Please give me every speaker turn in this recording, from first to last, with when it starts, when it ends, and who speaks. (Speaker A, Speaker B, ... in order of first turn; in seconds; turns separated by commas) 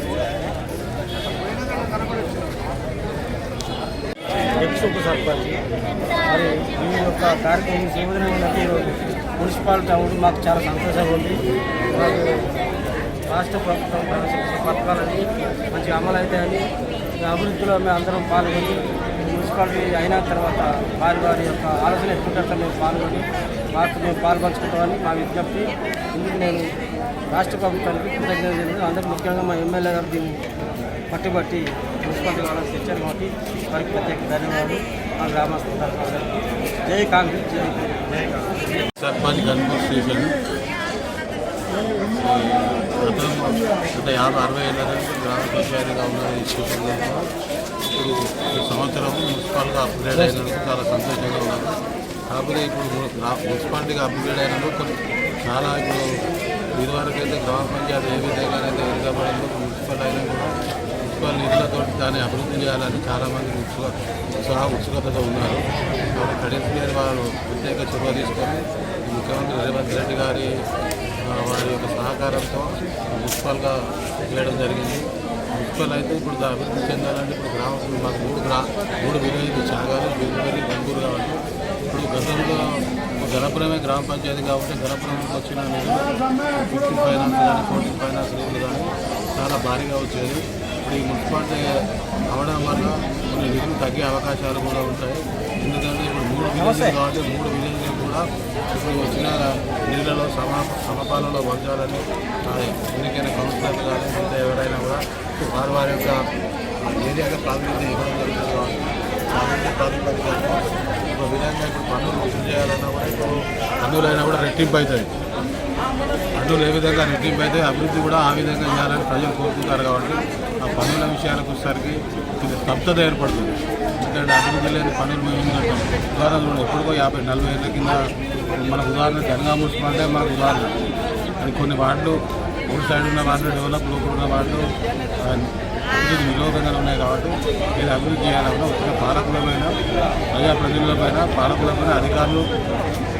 Speaker A: 4.6-5.6, Speaker A: 6.3-12.6, Speaker A: 13.3-16.6, Speaker A: 17.2-26.7, Speaker A: 27.3-30.4, Speaker A: 31.1-36.3, Speaker A: 36.9-38.8, Speaker B: 39.0-40.3, Speaker B: 42.2-47.3, Speaker B: 47.9-51.7, Speaker A: 50.1-50.5, Speaker B: 52.3-54.9, Speaker B: 55.5-56.0, Speaker B: 56.8-60.5, Speaker B: 61.0-65.6, Speaker B: 66.1-70.5, Speaker B: 71.2-81.4, Speaker B: 81.9-91.6, Speaker B: 92.3-106.2, Speaker A: 96.5-97.0, Speaker B: 106.8-108.8, Speaker B: 109.3-115.1, Speaker B: 116.4-128.0, Speaker B: 128.6-130.7, Speaker B: 131.4-134.6, Speaker B: 135.2-139.7, Speaker B: 140.3-142.4